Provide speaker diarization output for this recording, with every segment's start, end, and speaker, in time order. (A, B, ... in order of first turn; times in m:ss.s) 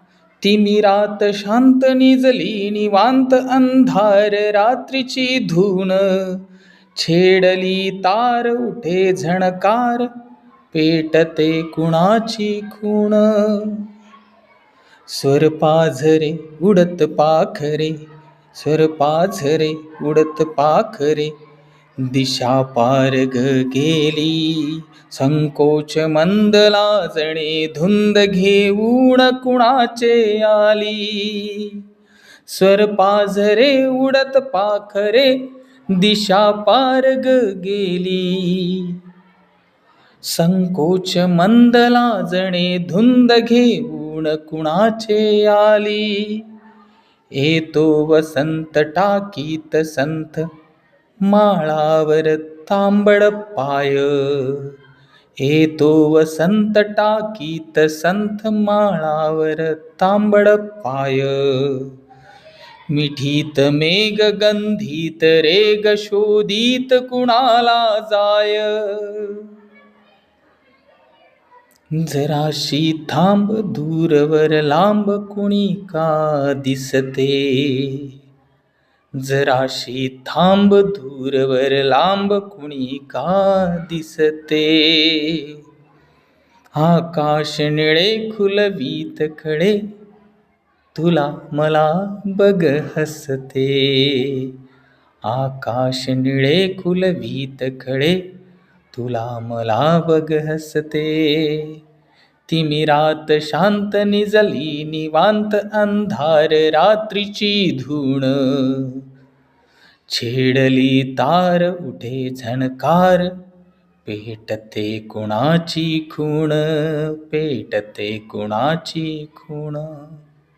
0:00.4-0:06.4 A
0:07.0-0:10.1 A
0:10.7-0:13.9 A
0:15.1-0:18.0 A
0:18.5-0:21.3 A
0:22.0-0:31.8 A
0:32.5-0:39.0 A
0:40.3-0:46.4 A
0:47.4-0:50.5 A
0:51.2-0:54.8 A
0:55.4-1:01.9 A
1:02.9-1:09.5 A
1:12.0-1:18.1 A
1:19.2-1:25.6 A
1:26.8-1:29.8 A
1:30.9-1:34.5 A
1:35.2-1:38.2 A
1:38.9-1:41.8 A
1:42.5-1:49.0 A
1:50.1-1:53.3 A
1:54.1-2:00.1 A